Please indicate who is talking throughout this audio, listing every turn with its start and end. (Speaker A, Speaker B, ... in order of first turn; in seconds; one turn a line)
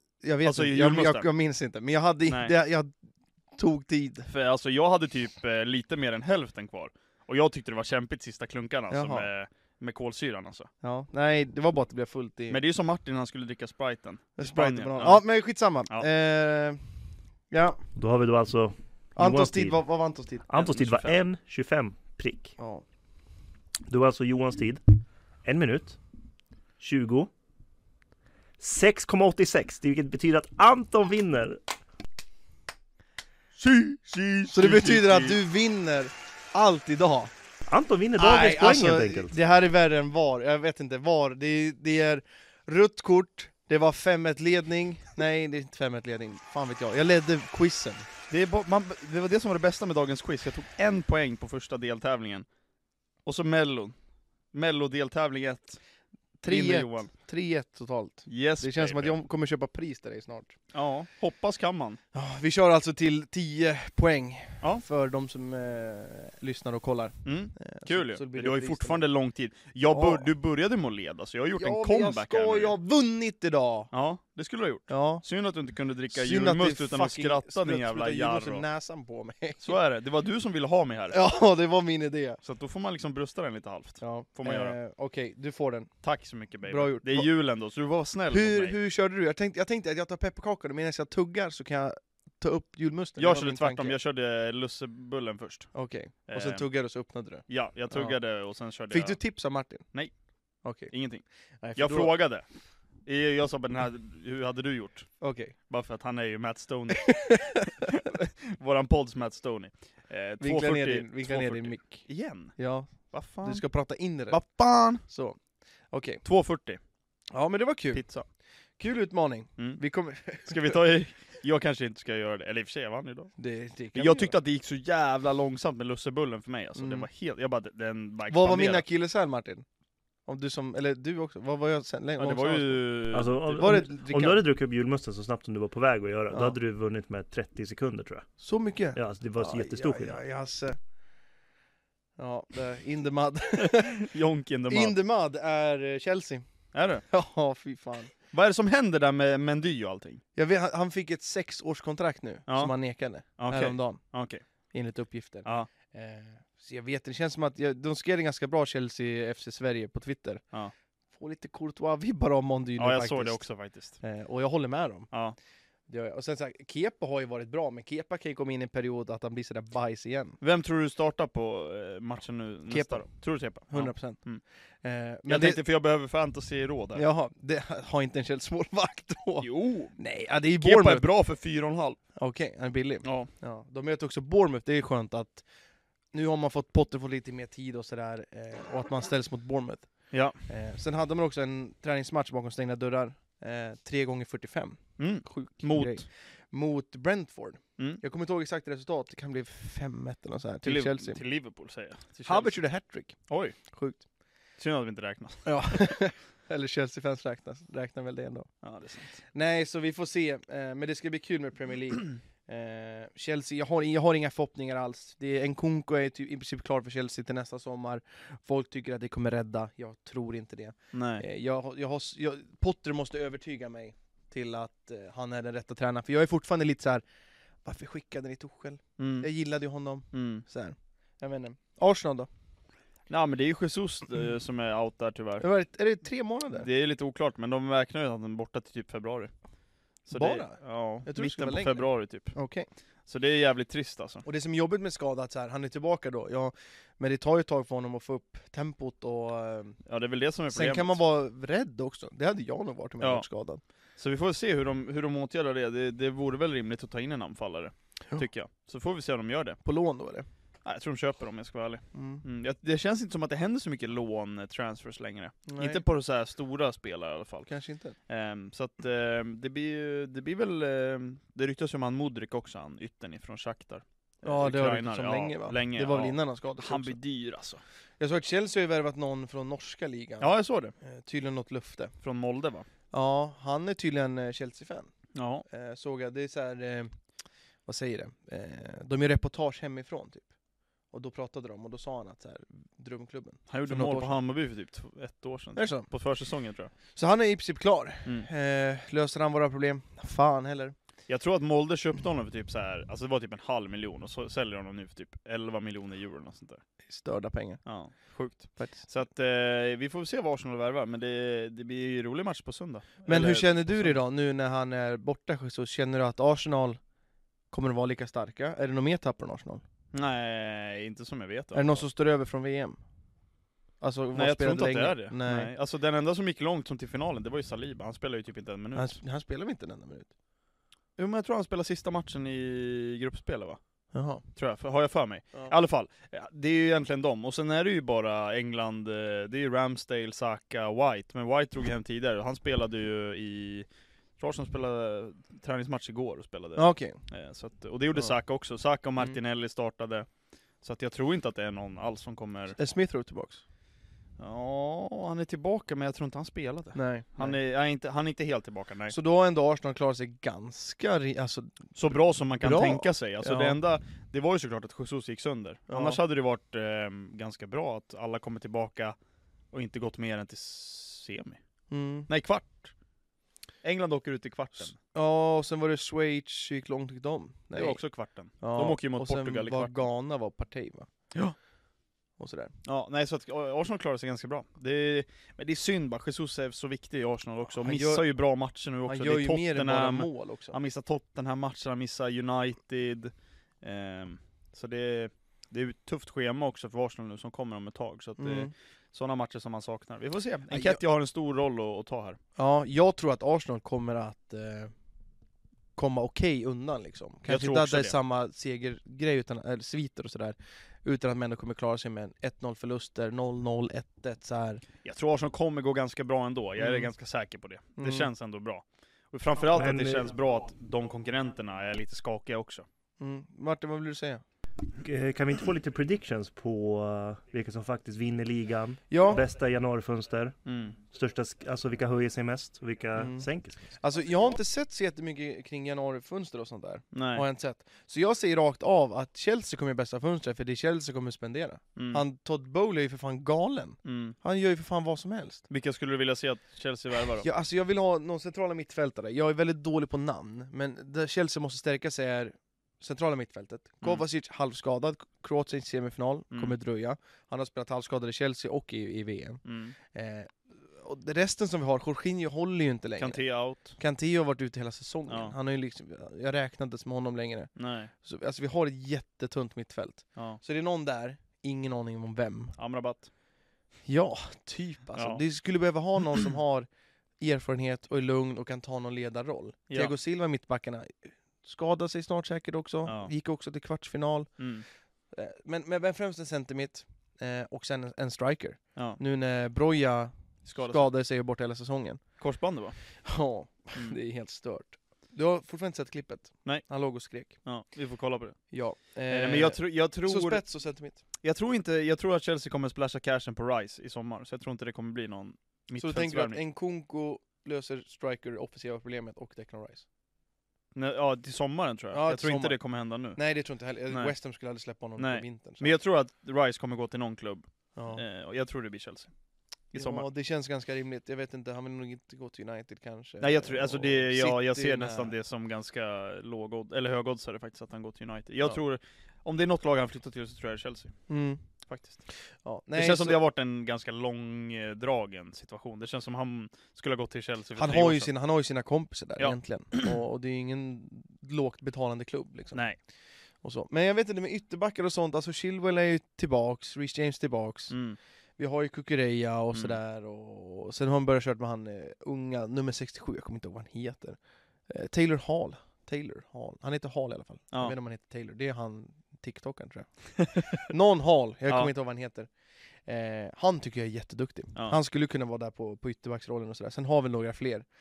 Speaker A: 0.2-2.9
Speaker B: 0.4-1.3
Speaker B: 2.3-2.5
Speaker A: 3.5-4.3
Speaker B: 4.3-10.7
Speaker A: 8.9-9.3
Speaker A: 10.8-12.6
Speaker B: 12.5-15.2
Speaker A: 14.4-16.8
Speaker A: 17.5-17.8
Speaker C: 17.9-19.8
Speaker A: 19.1-20.5
Speaker C: 20.5-22.6
Speaker B: 20.5-21.2
Speaker A: 22.6-22.8
Speaker C: 23.9-24.8
Speaker C: 25.4-26.0
Speaker C: 26.8-27.3
Speaker C: 28.6-31.6
Speaker B: 33.6-35.4
Speaker A: 34.5-37.3
Speaker C: 37.6-39.4
Speaker A: 38.2-48.0
Speaker B: 48.3-52.5
Speaker B: 53.2-53.9
Speaker B: 54.5-55.8
Speaker A: 56.4-60.5
Speaker B: 56.5-57.1
Speaker B: 58.3-59.1
Speaker B: 60.7-62.0
Speaker A: 62.1-69.0
Speaker B: 67.2-72.7
Speaker A: 69.9-70.3
Speaker A: 71.6-73.9
Speaker B: 73.9-78.6
Speaker A: 74.9-75.2
Speaker A: 76.1-79.8
Speaker B: 79.6-81.2
Speaker A: 81.1-82.4
Speaker B: 82.4-84.8
Speaker A: 84.0-85.9
Speaker B: 86.0-88.8
Speaker A: 86.6-87.3
Speaker A: 88.3-94.0
Speaker B: 93.2-95.7
Speaker A: 95.7-98.2
Speaker B: 96.3-96.7
Speaker B: 97.5-99.2
Speaker A: 98.9-99.9
Speaker B: 99.8-100.1
Speaker A: 100.6-100.9
Speaker B: 100.9-102.4
Speaker A: 101.6-102.1
Speaker B: 103.0-113.6
Speaker A: 105.2-105.5
Speaker A: 107.0-107.9
Speaker A: 110.4-114.4
Speaker B: 114.3-115.0
Speaker A: 115.0-115.4
Speaker A: 115.9-116.2
Speaker B: 116.2-116.8
Speaker A: 117.3-118.0
Speaker B: 117.9-118.3
Speaker A: 118.8-120.8
Speaker B: 120.3-123.3
Speaker A: 123.4-124.4
Speaker B: 123.9-128.8
Speaker A: 126.8-127.1
Speaker A: 128.3-129.6
Speaker A: 130.3-134.4
Speaker B: 132.2-133.7
Speaker C: 133.1-138.3
Speaker A: 136.3-136.6
Speaker A: 138.4-140.8
Speaker C: 138.9-140.2
Speaker A: 142.2-144.1
Speaker B: 143.6-144.9
Speaker A: 144.7-146.5
Speaker B: 146.7-147.1
Speaker A: 147.1-148.1
Speaker B: 148.3-150.2
Speaker A: 150.3-154.0
Speaker B: 152.5-154.4
Speaker A: 154.7-160.4
Speaker A: 161.1-165.1
Speaker B: 162.8-164.0
Speaker B: 165.1-165.4
Speaker A: 165.9-170.4
Speaker B: 170.4-174.4
Speaker A: 172.7-173.1
Speaker A: 173.7-174.2
Speaker A: 174.8-175.6
Speaker B: 175.3-177.0
Speaker A: 176.9-181.1
Speaker B: 179.4-180.0
Speaker B: 180.6-182.0
Speaker A: 182.2-185.4
Speaker B: 183.0-183.3
Speaker A: 186.1-201.2
Speaker B: 190.1-190.4
Speaker B: 195.0-196.0
Speaker B: 200.6-202.6
Speaker A: 202.2-203.2
Speaker B: 203.3-203.6
Speaker A: 203.7-204.0
Speaker B: 204.6-205.5
Speaker A: 205.4-208.5
Speaker B: 208.6-209.2
Speaker A: 209.3-227.0
Speaker B: 220.9-221.2
Speaker A: 227.6-232.3
Speaker B: 229.0-229.3
Speaker B: 230.1-230.4
Speaker B: 233.1-235.5
Speaker A: 235.4-236.7
Speaker B: 236.6-239.3
Speaker B: 240.0-242.4
Speaker A: 240.1-242.7
Speaker B: 243.1-244.2
Speaker A: 244.2-249.8
Speaker B: 249.9-251.0
Speaker A: 250.5-253.6
Speaker B: 253.0-253.2
Speaker B: 254.0-259.6
Speaker A: 259.6-260.3
Speaker B: 260.6-267.5
Speaker A: 261.9-262.2
Speaker A: 265.5-265.8
Speaker A: 267.5-267.9
Speaker B: 268.1-277.6
Speaker A: 274.2-277.0
Speaker A: 278.0-280.3
Speaker B: 280.2-280.7
Speaker A: 280.8-281.9
Speaker B: 282.0-282.7
Speaker A: 282.9-284.9
Speaker B: 285.1-285.4
Speaker A: 285.5-286.9
Speaker A: 287.7-290.3
Speaker A: 290.9-294.2
Speaker B: 293.5-296.7
Speaker A: 295.6-295.9
Speaker A: 296.9-300.8
Speaker B: 301.1-306.6
Speaker A: 306.9-307.6
Speaker B: 307.6-314.0
Speaker A: 308.6-308.9
Speaker A: 313.1-316.8
Speaker A: 317.5-319.6
Speaker B: 319.9-321.8
Speaker A: 321.5-322.8
Speaker A: 323.8-325.5
Speaker B: 324.1-329.0
Speaker A: 328.8-330.1
Speaker B: 331.0-333.6
Speaker A: 333.9-334.2
Speaker B: 334.3-343.7
Speaker B: 344.2-350.1
Speaker A: 346.6-347.0
Speaker B: 350.6-352.6
Speaker A: 352.6-353.4
Speaker B: 354.2-358.9
Speaker A: 356.8-357.4
Speaker A: 358.9-363.6
Speaker B: 361.8-368.9
Speaker A: 365.7-366.0
Speaker B: 369.5-371.4
Speaker A: 371.7-372.1
Speaker B: 372.1-372.7
Speaker B: 373.6-374.8
Speaker A: 374.6-377.8
Speaker B: 377.5-379.8
Speaker A: 378.4-380.9
Speaker A: 382.2-382.5
Speaker B: 382.7-402.2
Speaker A: 387.6-388.1
Speaker A: 388.9-390.5
Speaker A: 398.2-398.5
Speaker A: 400.5-400.8
Speaker A: 402.4-404.7
Speaker A: 405.8-414.6
Speaker B: 407.3-407.9
Speaker B: 414.8-422.6
Speaker A: 416.6-416.9
Speaker A: 417.8-418.1
Speaker C: 419.5-420.1
Speaker A: 423.0-424.2
Speaker C: 424.8-433.7
Speaker A: 428.9-429.2
Speaker B: 430.4-430.8
Speaker A: 433.0-445.4
Speaker B: 436.9-437.2
Speaker B: 441.8-442.0
Speaker B: 443.8-444.2
Speaker B: 445.5-447.3
Speaker A: 447.2-472.6
Speaker B: 459.4-459.8
Speaker B: 463.0-463.8
Speaker B: 465.1-465.3
Speaker B: 467.6-467.9
Speaker B: 470.2-470.4
Speaker B: 472.6-473.1
Speaker A: 473.8-476.7
Speaker B: 474.9-475.2
Speaker A: 477.2-484.4
Speaker B: 482.9-483.1
Speaker B: 484.4-484.7
Speaker A: 485.1-492.0
Speaker B: 490.4-490.9
Speaker B: 492.2-492.8
Speaker A: 493.0-497.4
Speaker B: 497.2-498.5
Speaker A: 498.5-501.0
Speaker B: 499.1-500.4
Speaker B: 501.2-506.4
Speaker A: 505.8-509.8
Speaker B: 510.8-513.2
Speaker A: 511.9-515.7
Speaker B: 513.9-514.1
Speaker B: 515.0-519.1
Speaker A: 517.8-518.0
Speaker B: 519.7-520.0
Speaker A: 519.8-525.1
Speaker B: 523.2-531.1
Speaker A: 531.1-531.4
Speaker B: 531.7-532.0
Speaker A: 532.4-533.2
Speaker B: 532.7-538.1
Speaker A: 537.5-542.6
Speaker B: 539.2-539.9
Speaker A: 543.4-547.7
Speaker B: 547.7-548.0
Speaker A: 548.4-562.3
Speaker A: 562.8-567.7